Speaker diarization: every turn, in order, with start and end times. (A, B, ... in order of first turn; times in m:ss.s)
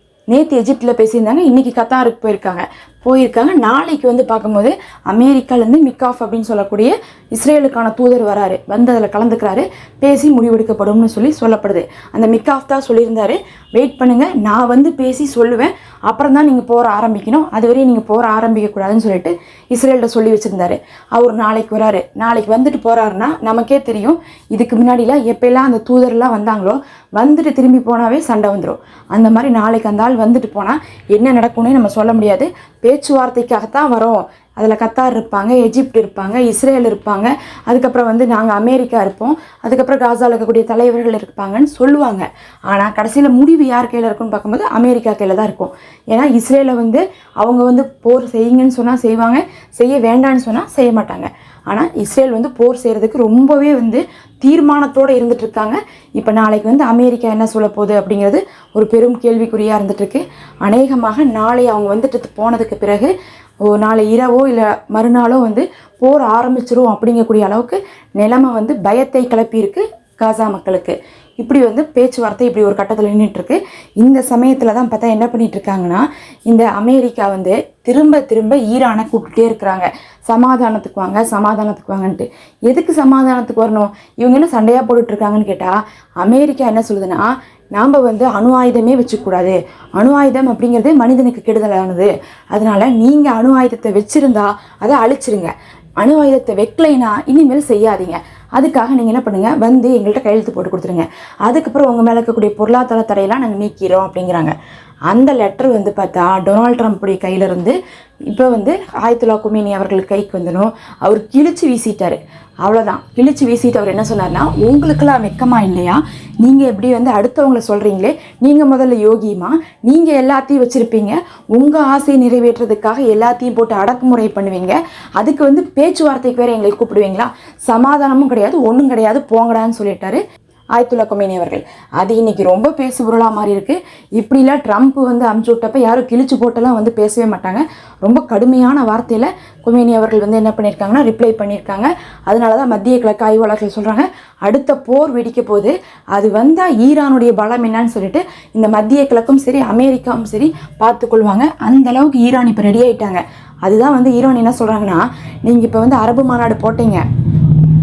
0:00.3-1:03.1 A
1:03.7-1:44.5 A
1:45.1-1:47.8 A
1:48.3-2:10.2 A
2:10.8-2:37.0 A